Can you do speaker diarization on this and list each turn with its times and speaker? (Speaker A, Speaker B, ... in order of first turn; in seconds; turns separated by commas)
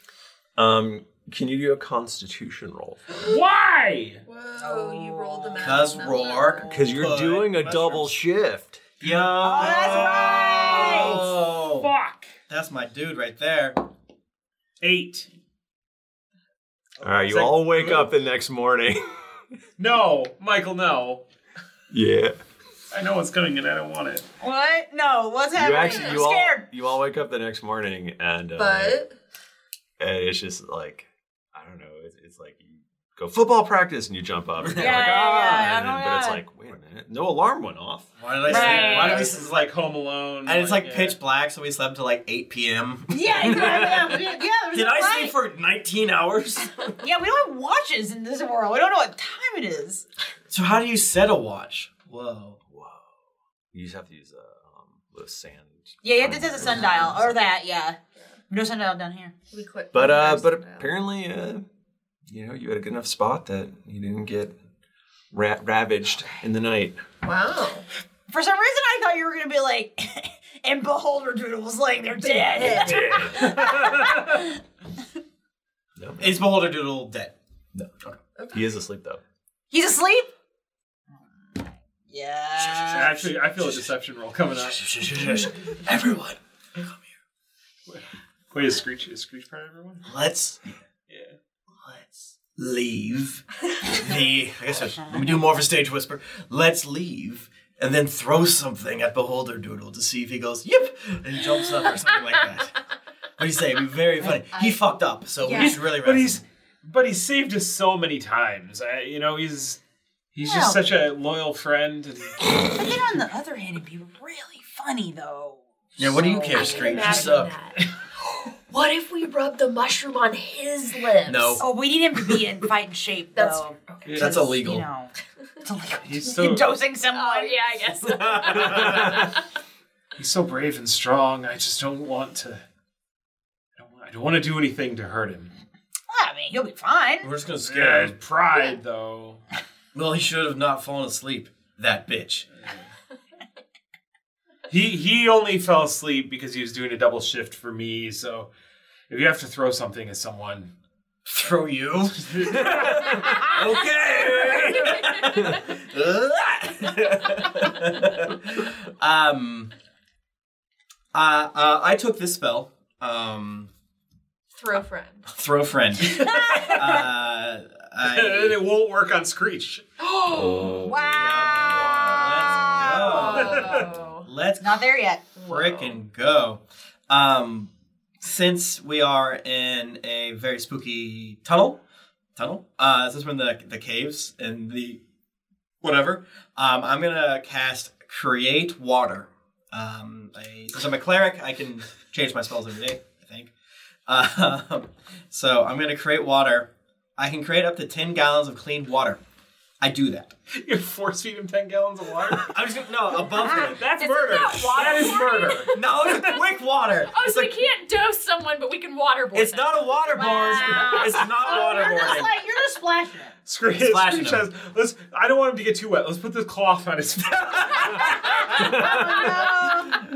Speaker A: 0.6-3.2, Speaker B: 3.2-4.2, Speaker C: 4.2-6.7, Speaker D: 4.6-6.9, Speaker E: 5.6-8.1, Speaker A: 6.7-8.8, Speaker E: 9.0-11.9, Speaker D: 9.4-11.2, Speaker B: 9.6-12.3, Speaker E: 12.5-13.8, Speaker B: 14.8-15.3, Speaker A: 17.0-19.1, Speaker B: 17.1-18.1, Speaker B: 19.8-21.2, Speaker A: 21.9-22.4, Speaker B: 22.9-24.3, Speaker D: 24.4-26.7, Speaker A: 25.5-29.0, Speaker C: 28.6-29.1, Speaker A: 30.0-38.1, Speaker E: 34.6-35.1, Speaker D: 34.7-36.4, Speaker E: 38.2-39.7, Speaker D: 38.5-39.3, Speaker B: 38.5-41.2, Speaker E: 40.4-44.0, Speaker D: 43.1-45.4, Speaker A: 43.4-44.2, Speaker E: 44.7-47.0, Speaker D: 47.0-50.0, Speaker E: 50.5-52.6, Speaker A: 52.7-53.0, Speaker A: 53.7-57.4, Speaker D: 56.0-58.0, Speaker D: 58.5-59.3, Speaker C: 59.5-60.9, Speaker A: 59.9-61.6, Speaker A: 62.3-64.5, Speaker A: 65.3-67.0, Speaker C: 67.2-67.8, Speaker D: 68.3-74.4, Speaker C: 72.2-73.5, Speaker A: 72.6-73.6, Speaker B: 73.5-74.4, Speaker A: 76.0-76.5, Speaker E: 76.2-77.3, Speaker A: 78.5-79.2, Speaker D: 79.7-80.3, Speaker D: 81.5-83.2, Speaker E: 82.6-83.9, Speaker B: 82.9-84.9, Speaker E: 84.5-86.9, Speaker B: 87.9-90.0, Speaker E: 90.0-90.8, Speaker B: 91.1-91.3, Speaker E: 91.8-102.7, Speaker E: 103.4-106.4, Speaker D: 104.2-104.8, Speaker C: 105.4-105.8, Speaker B: 105.5-109.8, Speaker B: 110.3-112.4, Speaker D: 110.4-110.8, Speaker D: 112.5-117.4, Speaker E: 116.0-117.5, Speaker C: 116.5-117.8, Speaker C: 118.7-121.6, Speaker E: 121.2-121.7, Speaker D: 121.6-125.1, Speaker C: 123.3-124.2, Speaker B: 124.1-124.5, Speaker E: 124.1-124.8, Speaker D: 125.6-127.9, Speaker B: 126.0-126.8, Speaker C: 127.1-129.4, Speaker B: 130.2-132.6, Speaker B: 133.8-135.5, Speaker D: 136.1-137.3, Speaker E: 137.2-138.2, Speaker B: 137.6-139.4, Speaker E: 139.9-142.5, Speaker B: 144.7-148.5, Speaker B: 149.1-150.7, Speaker E: 151.2-159.7, Speaker B: 152.4-152.8, Speaker C: 154.9-155.4, Speaker E: 161.1-163.7, Speaker C: 164.5-165.3, Speaker E: 165.3-168.6, Speaker B: 168.0-169.8, Speaker C: 170.0-170.9, Speaker A: 170.3-172.2, Speaker D: 170.8-173.4, Speaker E: 171.1-181.8, Speaker C: 172.8-174.3, Speaker B: 173.4-173.8, Speaker D: 174.6-175.3, Speaker C: 175.3-176.0, Speaker E: 182.3-185.0, Speaker E: 185.8-193.5, Speaker E: 194.1-199.2, Speaker E: 199.8-200.3, Speaker B: 200.5-202.5, Speaker E: 202.4-203.9, Speaker B: 203.6-206.2, Speaker C: 204.0-205.7, Speaker D: 204.3-205.1, Speaker E: 205.7-207.5, Speaker C: 207.1-210.0, Speaker E: 209.3-212.3, Speaker D: 210.1-213.3, Speaker B: 211.9-212.2, Speaker B: 213.4-219.4, Speaker E: 213.8-214.5, Speaker D: 218.7-220.0